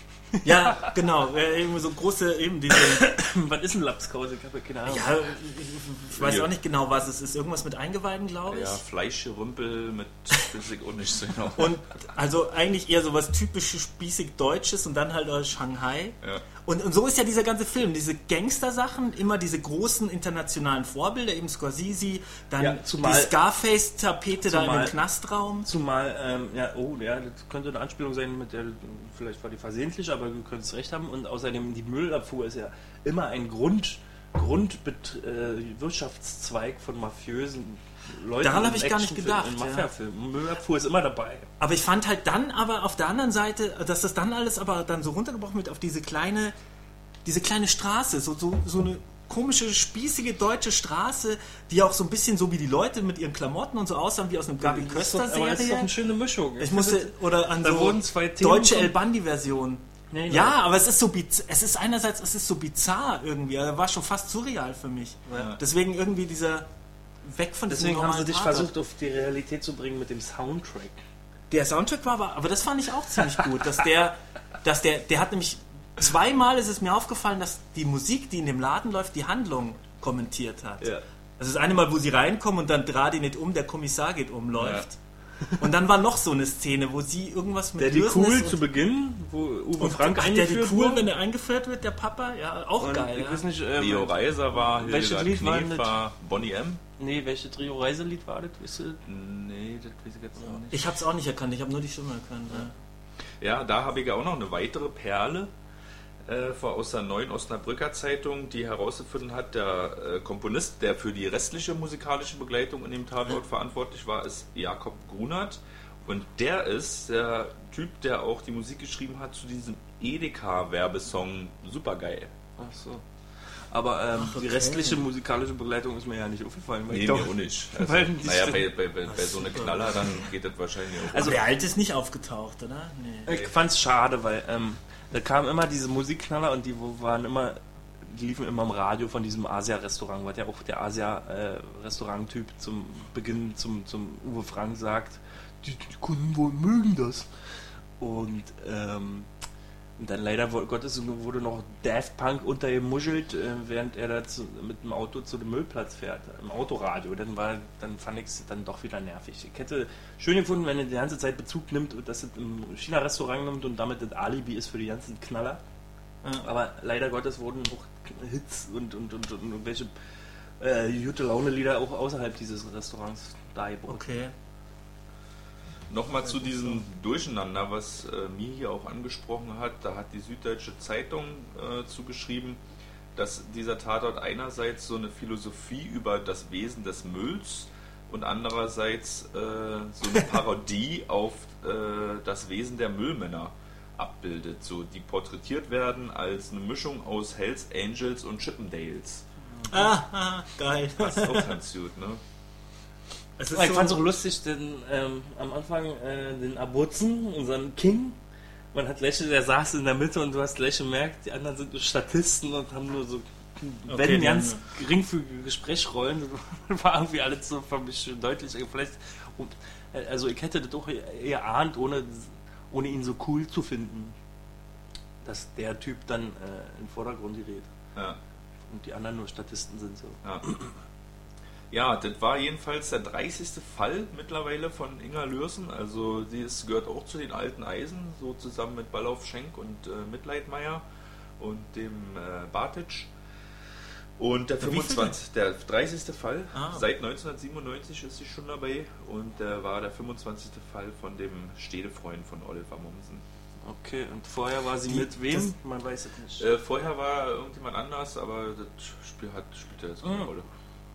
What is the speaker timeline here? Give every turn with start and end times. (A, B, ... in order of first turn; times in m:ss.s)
0:00.4-0:03.2 A
0:02.7-0:05.3 B
0:04.8-0:08.8 A
0:06.2-0:06.5 C
0:08.5-0:11.8 C
0:11.5-0:25.7 A
0:22.6-0:23.3 B
0:24.4-0:25.0 B
0:25.6-0:41.5 B
0:38.4-0:39.9 A
0:41.6-0:46.5 A
0:47.2-0:55.9 A
0:54.6-0:59.0 B
0:56.6-1:06.7 A
1:00.1-1:00.6 B
1:05.3-1:05.5 B
1:07.2-1:08.7 A
1:07.7-1:11.0 B
1:11.5-1:25.0 A
1:24.6-1:24.8 C
1:25.6-1:28.6 A
1:27.8-1:31.0 B
1:29.8-1:33.4 A
1:32.8-1:36.0 B
1:33.8-1:36.8 C
1:37.0-1:39.0 B
1:39.0-1:40.8 C
1:40.7-1:42.7 A
1:43.4-1:45.5 C
1:46.2-2:02.4 C
2:02.6-2:03.0 B
2:03.6-2:08.7 B
2:04.2-2:05.0 A
2:06.9-2:11.4 C
2:09.0-2:10.2 A
2:11.1-2:11.4 B
2:11.2-2:13.3 A
2:13.2-2:27.3 B
2:13.3-2:13.5 C
2:28.0-2:29.3 B
2:30.0-2:45.6 B
2:46.4-2:49.9 B
2:50.6-2:54.2 B
2:53.9-2:54.3 A
2:55.9-3:02.6 C
2:56.4-2:56.7 A
3:03.1-3:19.2 C
3:19.7-3:21.6 A
3:21.0-3:22.2 C
3:23.4-3:24.0 A
3:23.5-3:28.2 B
3:28.7-3:44.1 B
3:33.9-3:34.6 A
3:45.2-3:47.7 B
3:47.9-3:48.2 C
3:48.7-3:50.7 B
3:51.7-4:00.8 C
4:01.4-4:03.1 C
4:04.2-4:13.2 C
4:04.6-4:05.2 A
4:06.5-4:06.8 A
4:13.6-4:16.5 B
4:14.8-4:15.5 A
4:16.4-4:20.5 C
4:20.0-4:20.3 B